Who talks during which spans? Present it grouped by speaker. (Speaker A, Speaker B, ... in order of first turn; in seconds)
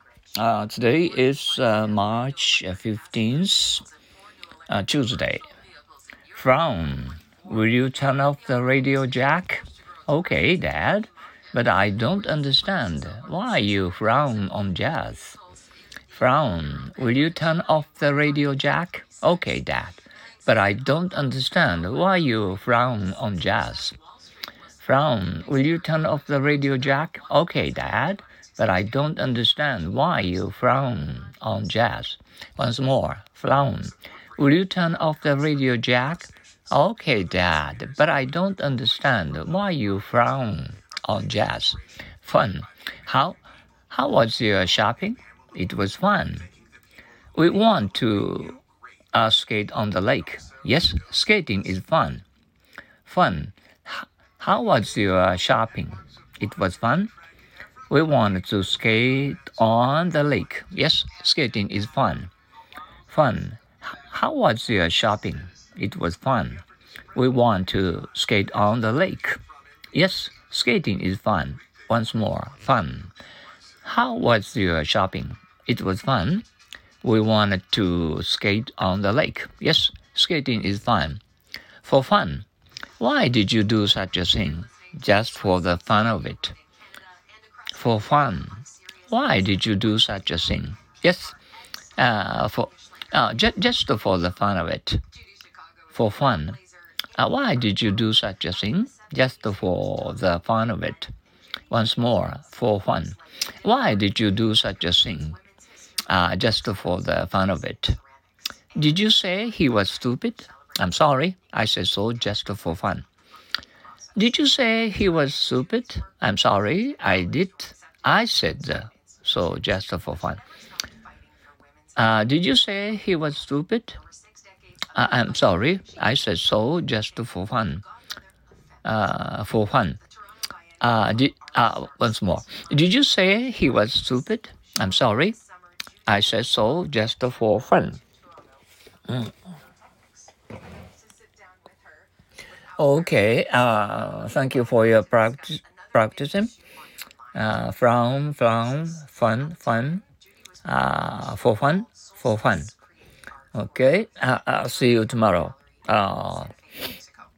Speaker A: 0.3-3.9, 4.7-5.5, 6.3-15.4, 16.1-23.9, 24.8-46.5, 47.3-48.6, 49.1-52.2, 53.0-57.1, 57.9-62.3, 63.1-66.6, 67.1-69.4, 69.9-73.1, 73.8-76.5, 77.0-81.2, 81.8-82.5, 83.0-86.6, 87.7-91.4, 92.0-95.0, 95.9-96.6, 97.2-101.1, 101.7-105.4, 106.1-108.0, 108.8-113.0, 114.1-120.4, 122.0-124.0, 124.9-127.8, 128.8-130.0, 130.8-135.4, 136.1-138.0, 142.8-146.5, 147.3-150.0, 150.6-152.7, 153.5-156.5